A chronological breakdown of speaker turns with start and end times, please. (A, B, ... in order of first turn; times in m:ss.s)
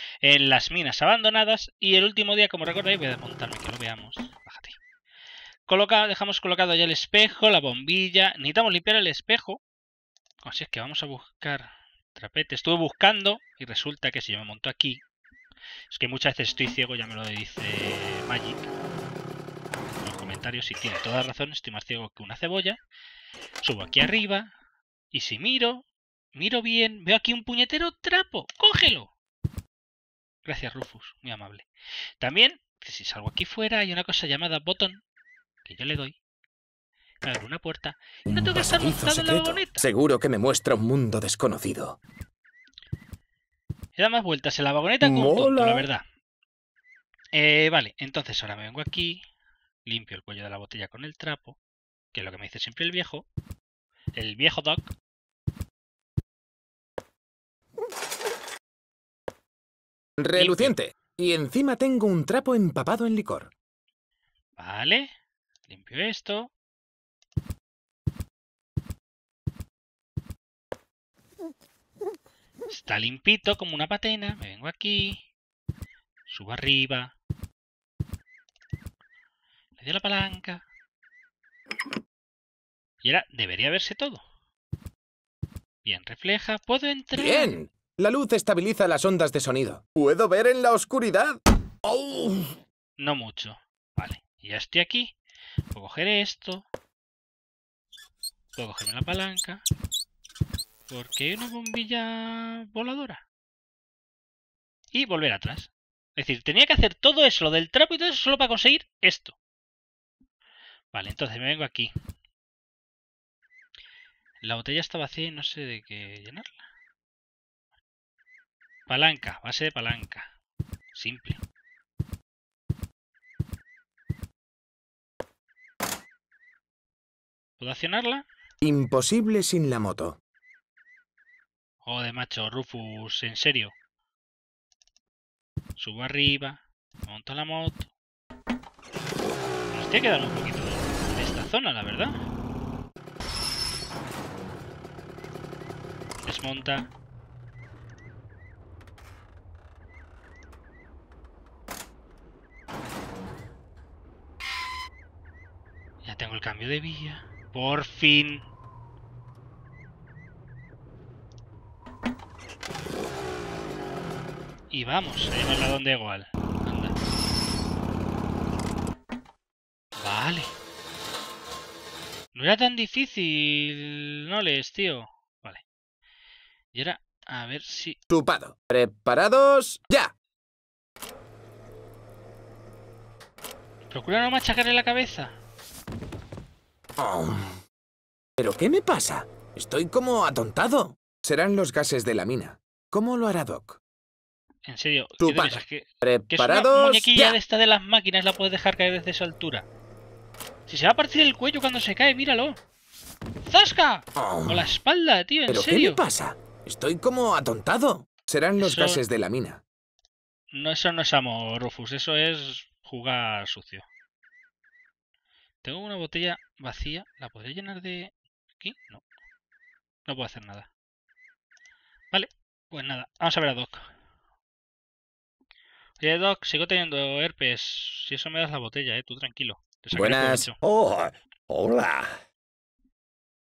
0:00.2-0:04.8 A
0:05.7-0:09.6 A
0:10.4-0:15.0 A
0:15.9-0:18.7 A
0:20.0-0:22.8 A
0:23.6-0:24.5 A
0:25.1-0:29.1 A
0:30.4-0:31.6 A
0:32.2-0:35.0 A
0:35.6-0:36.2 A
0:37.2-0:39.9 A
0:38.3-0:42.0 B
0:44.0-0:46.0 A
0:45.0-0:45.9 B
0:47.3-0:49.2 A
0:49.8-0:51.6 A
0:52.1-0:53.2 A
0:54.2-0:54.9 A
1:00.2-1:03.5 B
1:00.3-1:00.7 A
1:04.6-1:05.1 A
1:05.7-1:06.5 A
1:12.7-1:15.2 A
1:16.3-1:17.1 A
1:19.8-1:20.6 A
1:23.0-1:24.2 A
1:25.8-1:27.5 A
1:27.1-1:31.4 B
1:31.8-1:32.5 C
1:33.0-1:35.1 A
1:35.7-1:36.6 A
1:38.6-1:39.6 A
1:40.9-1:43.2 A
1:44.9-1:49.3 A
1:50.9-1:51.9 A
1:54.4-1:56.5 A
1:58.9-2:00.3 A
2:00.9-2:01.4 A
2:07.6-2:08.2 A
2:08.6-2:10.2 B
2:11.8-2:13.7 A
2:15.8-2:17.9 A
2:19.7-2:22.1 A
2:26.2-2:26.9 A
2:36.0-2:38.4 A
2:44.7-2:46.9 A
2:50.0-2:50.5 A
2:52.3-2:55.6 A
2:56.7-2:58.0 A
2:58.1-3:00.1 B
3:03.9-3:05.4 A
3:07.0-3:07.6 B
3:08.4-3:13.8 B
3:14.6-3:19.6 A
3:15.2-3:17.4 B
3:20.7-3:22.6 A
3:23.4-3:26.0 A
3:24.2-3:24.8 B
3:25.5-3:29.6 B
3:28.6-3:29.0 A
3:30.5-3:33.8 A
3:35.6-3:39.0 A
3:40.1-3:40.7 A
3:42.1-3:43.9 A
3:46.0-3:50.6 A
3:49.9-3:50.5 B
3:50.6-3:52.2 C